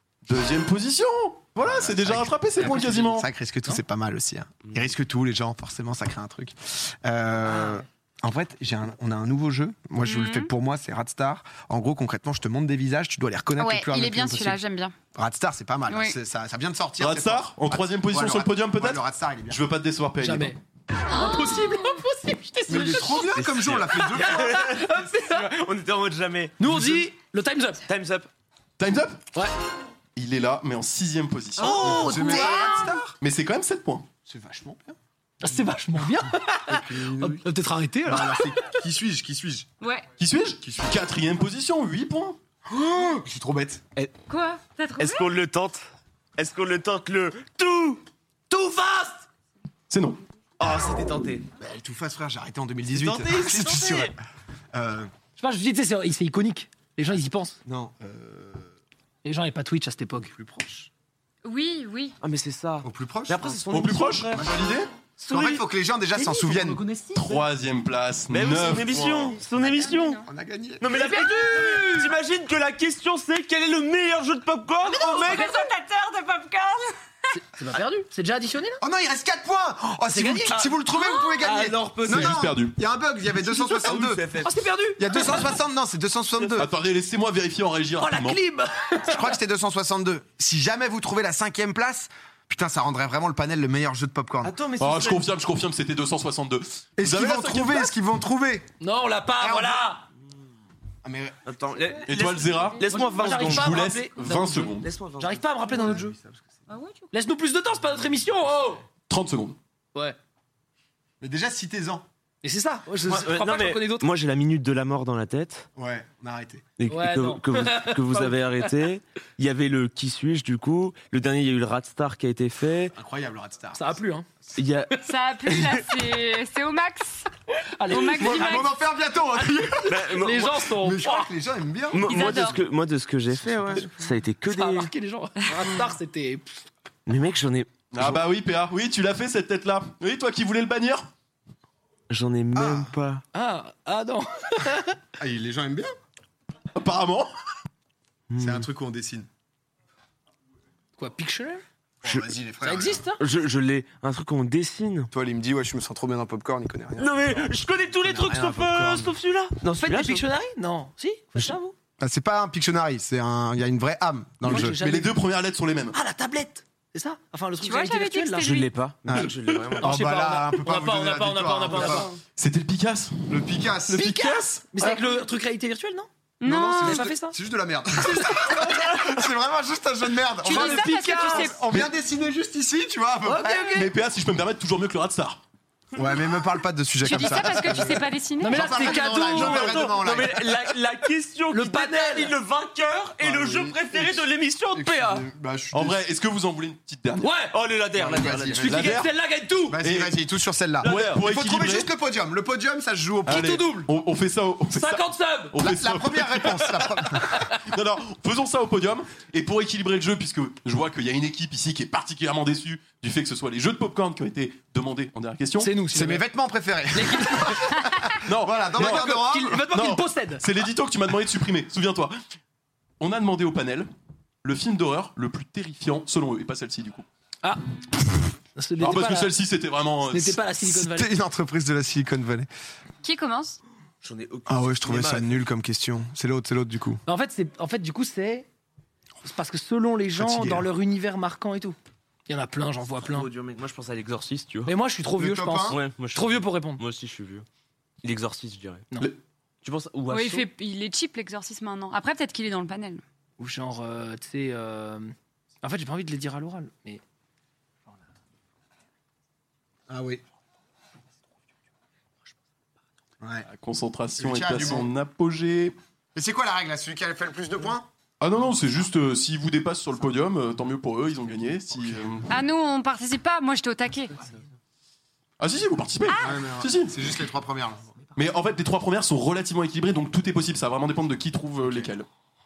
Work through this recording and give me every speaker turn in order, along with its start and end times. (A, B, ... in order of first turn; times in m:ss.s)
0:00.3-0:03.3 A
0:01.6-0:14.6 B
0:02.6-0:03.1 C
0:07.4-0:07.8 C
0:10.0-0:10.5 D
0:13.6-0:14.9 D
0:15.2-0:19.6 B
0:15.9-0:16.2 D
0:17.0-0:20.6 A
0:20.2-0:23.4 C
0:21.1-0:21.9 D
0:22.7-0:24.6 B
0:22.7-0:26.8 E
0:23.9-0:25.5 C
0:26.6-0:27.8 C
0:26.7-0:27.0 B
0:27.9-0:28.3 E
0:28.8-0:29.2 A
0:30.2-0:32.1 A
0:31.6-0:33.0 C
0:31.6-0:33.2 B
0:32.1-0:32.8 D
0:33.2-0:34.1 A
0:34.3-0:35.0 B
0:35.4-0:38.8 C
0:36.6-0:37.5 B
0:38.0-0:39.7 B
0:39.8-0:40.1 D
0:40.2-0:42.4 A
0:40.6-0:41.1 B
0:42.7-0:43.8 B
0:44.3-0:45.4 D
0:45.0-0:48.0 E
0:48.5-0:49.3 C
0:49.9-0:50.2 A
0:50.6-0:51.5 E
0:51.6-0:54.2 B
0:52.9-0:54.2 E
0:54.7-0:55.1 B
0:55.4-0:57.6 C
0:57.7-0:58.7 B
0:59.2-1:00.3 C
1:00.2-1:00.9 B
1:01.4-1:02.2 D
1:02.2-1:04.5 E
1:02.8-1:03.6 B
1:03.7-1:04.9 A
1:05.2-1:05.6 E
1:05.3-1:06.8 B
1:06.2-1:07.4 E
1:07.2-1:09.4 A
1:08.3-1:10.2 E
1:09.6-1:11.0 B
1:09.8-1:10.2 D
1:10.8-1:15.6 E
1:10.9-1:12.1 C
1:14.9-1:17.0 D
1:17.3-1:18.8 C
1:18.8-1:24.3 B
1:20.1-1:20.6 C
1:20.5-1:20.8 E
1:20.9-1:21.4 D
1:21.4-1:22.4 E
1:22.1-1:22.8 A
1:23.3-1:24.6 E
1:24.4-1:25.5 C
1:25.0-1:26.7 B
1:26.4-1:26.6 E
1:26.6-1:28.4 A
1:28.0-1:29.4 C
1:29.0-1:34.5 B
1:34.4-1:35.3 E
1:34.8-1:37.9 A
1:37.0-1:38.7 B
1:38.8-1:40.1 C
1:39.4-1:39.8 B
1:41.0-1:41.4 B
1:41.5-1:46.0 E
1:42.1-1:44.9 A
1:42.1-1:43.3 D
1:42.9-1:46.2 C
1:45.7-1:46.6 B
1:46.7-1:47.1 D
1:47.1-1:48.8 C
1:49.1-1:49.6 A
1:51.2-1:52.0 B
1:52.4-1:54.1 C
1:53.0-1:55.7 E
1:55.8-1:56.7 B
1:56.8-2:03.0 E
1:56.9-1:58.8 C
2:02.9-2:04.0 B
2:03.8-2:04.3 C
2:04.6-2:05.0 E
2:05.0-2:07.3 D
2:05.5-2:05.8 E
2:07.8-2:08.7 C
2:07.9-2:08.7 D
2:08.1-2:12.6 B
2:09.8-2:10.7 E
2:10.0-2:11.3 C
2:11.9-2:14.9 E
2:12.0-2:12.6 D
2:13.4-2:13.9 B
2:14.5-2:16.7 C
2:17.1-2:18.2 E
2:17.9-2:21.1 A
2:22.1-2:23.2 E
2:22.5-2:22.9 B
2:23.3-2:25.0 C
2:25.2-2:25.9 B
2:26.8-2:27.3 A
2:28.3-2:28.7 E
2:28.4-2:29.3 B
2:31.0-2:31.6 C
2:32.0-2:33.1 B
2:32.0-2:32.3 E
2:32.6-2:33.2 C
2:33.2-2:35.1 E
2:35.1-2:37.4 B
2:37.0-2:40.2 E
2:38.0-2:39.2 B
2:39.8-2:41.8 C
2:41.4-2:45.1 B
2:44.4-2:45.1 C
2:44.5-2:46.0 A
2:45.9-2:48.5 C
2:47.6-2:48.7 D
2:48.4-2:50.0 E
2:49.1-2:52.1 B
2:49.8-2:52.2 C
2:51.7-2:52.1 E
2:52.4-2:54.6 A
2:53.3-2:54.4 B
2:53.9-2:56.1 C
2:54.8-2:55.1 D
2:56.4-2:57.1 D
2:56.4-3:03.9 B
2:56.8-2:57.4 C
2:58.0-2:59.1 C
3:00.4-3:01.6 C
3:00.4-3:01.7 D
3:03.2-3:03.9 C
3:03.7-3:05.4 A
3:06.0-3:10.4 B
3:07.0-3:08.8 D
3:08.4-3:10.0 C
3:08.8-3:15.3 E
3:11.5-3:12.4 C
3:13.2-3:16.0 B
3:15.7-3:17.3 A
3:17.2-3:17.6 C
3:17.5-3:18.9 E
3:18.0-3:18.8 B
3:18.6-3:19.8 C
3:18.6-3:19.1 A
3:19.7-3:23.6 B
3:19.8-3:20.2 A
3:20.8-3:21.3 E
3:20.8-3:21.9 A
3:23.3-3:35.7 A
3:23.3-3:23.9 C
3:24.7-3:25.6 C
3:25.6-3:27.5 B
3:35.6-3:36.2 C
3:35.9-3:39.7 B
3:36.9-3:37.9 C
3:38.2-3:42.2 A
3:38.8-3:40.4 C
3:43.0-3:43.9 A
3:44.4-3:47.0 A
3:48.1-3:49.3 C
3:48.8-3:50.4 A
3:50.1-3:51.1 C
3:50.6-3:52.5 B
3:53.0-3:53.6 D
3:54.0-3:55.4 E
3:54.5-3:57.0 B
3:57.1-3:58.5 C
3:59.2-4:03.3 C
4:00.2-4:00.7 B
4:03.0-4:04.7 E
4:04.7-4:06.8 C
4:05.2-4:05.8 B
4:05.7-4:07.5 E
4:08.0-4:08.8 E
4:09.6-4:10.5 E
4:10.1-4:13.0 D
4:13.4-4:17.0 C
4:19.9-4:20.2 B
4:23.2-4:23.5 B
4:23.5-4:25.8 A
4:24.2-4:24.9 B
4:26.2-4:27.9 B
4:28.2-4:32.4 A
4:32.3-4:34.2 D
4:35.4-4:37.0 A
4:36.1-4:36.4 D
4:36.2-4:37.9 B
4:38.2-4:42.1 A